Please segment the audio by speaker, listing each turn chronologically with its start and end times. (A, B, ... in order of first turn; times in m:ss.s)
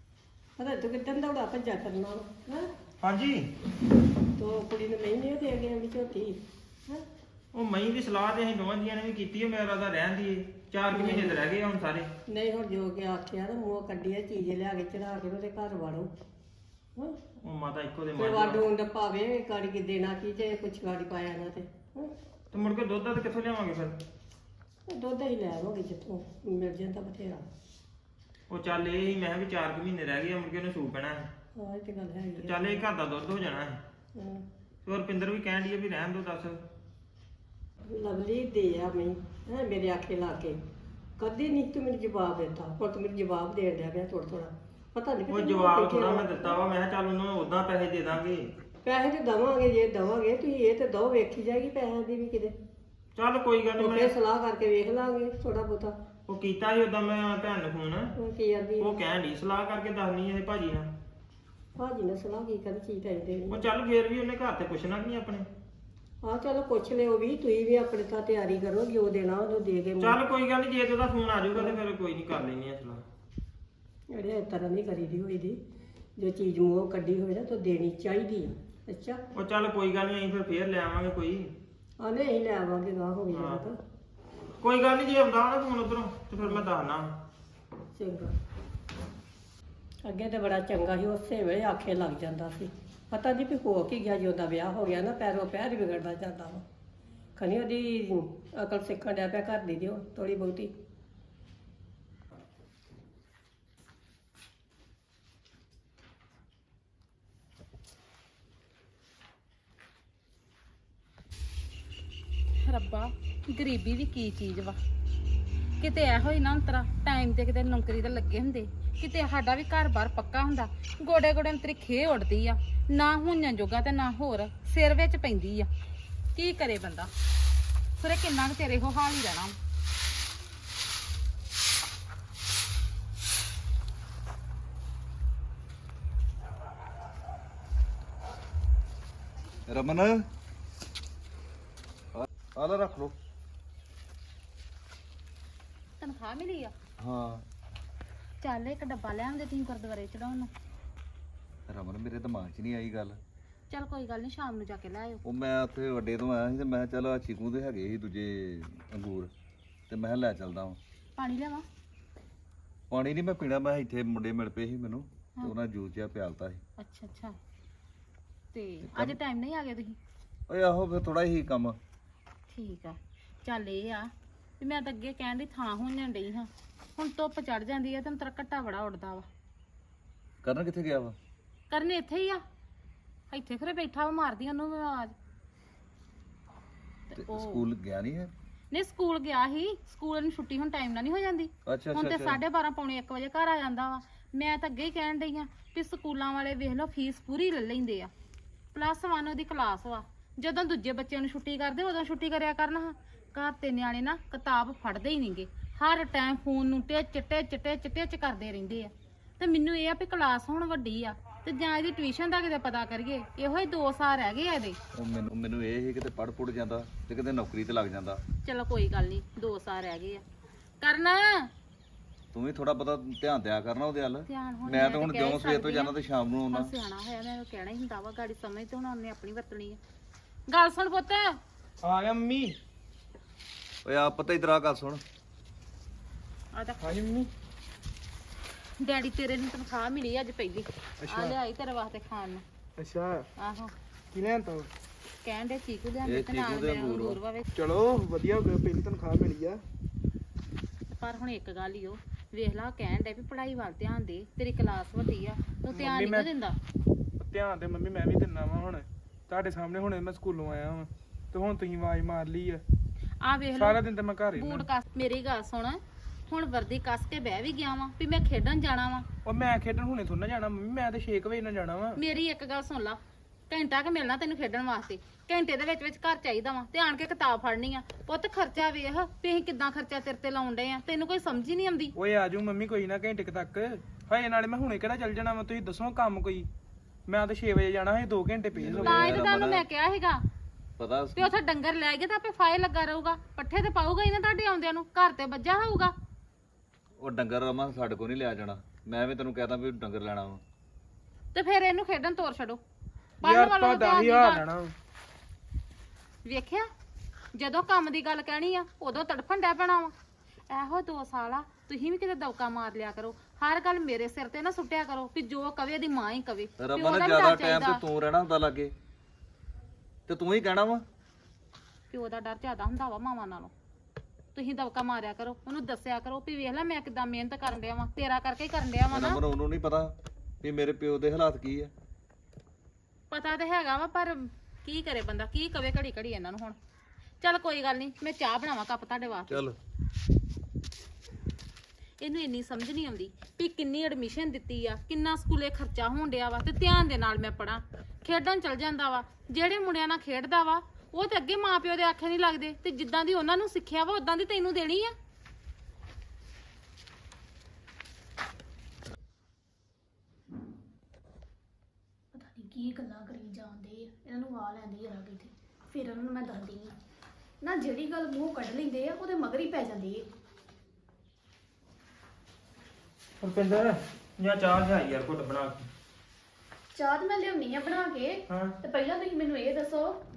0:00.6-0:02.7 A
0:03.0-0:03.5 B
0:04.4-0:07.0 A
0:07.5-0:12.1 B
0:10.9-0:11.4 A
0:12.3-0:16.1 A
0:17.4-0:18.7 B
0:18.2-0:22.1 A
0:22.5-0:24.0 B
0:24.9-0:27.4 A
0:28.5-0:31.3 B
0:31.6-0:32.8 A
0:32.4-0:33.8 B
0:34.2-0:34.4 A
0:34.9-0:36.6 B
0:37.9-0:40.6 A
0:41.2-0:46.6 A
0:45.3-0:48.4 B
0:48.8-0:52.6 A
0:53.2-0:54.1 B
0:53.8-0:55.9 A
0:56.3-0:58.1 B
0:58.2-0:59.0 A
0:58.8-1:00.9 B
1:01.8-1:03.6 A
1:03.5-1:05.5 B
1:06.2-1:10.2 A
1:10.0-1:13.0 B
1:14.1-1:15.6 A
1:16.2-1:19.2 A
1:19.4-1:21.5 B
1:22.0-1:23.8 A
1:23.3-1:23.7 B
1:24.6-1:27.1 B
1:28.0-1:28.3 A
1:30.0-1:36.6 A
1:37.4-1:40.7 A
1:52.6-1:54.8 C
1:55.8-2:05.7 C
2:06.4-2:07.1 C
2:08.0-2:09.6 C
2:19.7-2:20.3 D
2:22.2-2:23.2 D
2:26.0-2:26.7 C
2:27.0-2:27.4 D
2:28.4-2:30.5 C
2:31.7-2:33.2 D
2:33.7-2:35.2 C
2:35.2-2:39.3 D
2:39.9-2:40.8 D
2:41.2-2:41.6 C
2:42.9-2:46.6 D
2:46.8-2:47.4 C
2:48.5-2:50.0 C
2:48.9-2:49.2 D
2:50.5-2:51.8 D
2:52.5-2:59.3 C
3:00.4-3:01.2 D
3:01.7-3:02.4 C
3:03.3-3:05.2 C
3:07.1-3:07.7 C
3:07.2-3:08.3 D
3:08.7-3:18.1 C
3:11.7-3:12.4 D
3:18.7-3:34.8 C
3:35.0-3:38.2 D
3:38.4-3:40.2 C
3:40.8-3:41.5 C
3:42.3-3:46.7 D
3:44.3-3:45.9 C
3:46.5-3:49.8 C
3:50.5-3:51.4 C
3:51.8-3:52.6 E
3:53.8-3:55.0 D
3:56.5-3:56.8 C
3:56.8-3:57.3 E
3:58.8-4:02.4 C
4:01.0-4:01.4 E
4:02.8-4:03.3 E
4:03.4-4:03.7 C
4:04.1-4:04.7 E
4:05.2-4:07.5 C
4:06.0-4:07.2 D
4:07.6-4:09.6 E
4:10.9-4:16.6 C
4:15.7-4:16.3 E
4:17.2-4:22.6 E
4:23.2-4:29.1 C
4:23.6-4:24.7 E
4:29.2-4:32.0 E
4:32.0-4:41.9 C
4:42.0-4:46.5 E
4:47.1-4:48.9 E
4:48.6-4:49.7 D
4:48.8-4:50.2 C
4:50.8-4:51.3 D
4:51.2-4:55.9 C
4:57.0-5:00.4 D
5:01.3-5:02.6 C
5:03.2-5:04.4 C
5:03.2-5:04.7 E
5:06.2-5:06.7 C
5:07.3-5:09.9 C
5:10.5-5:17.8 C
5:16.6-5:18.7 D
5:20.1-5:20.8 D
5:21.9-5:23.5 C
5:24.4-5:29.2 C
5:28.9-5:31.7 D
5:33.1-5:36.6 C
5:37.2-5:39.5 C
5:39.3-5:39.6 D
5:42.0-5:54.9 C
6:02.1-6:06.7 F
6:07.4-6:10.0 F
6:13.2-6:15.7 B
6:16.8-6:19.9 F
6:18.3-6:18.6 B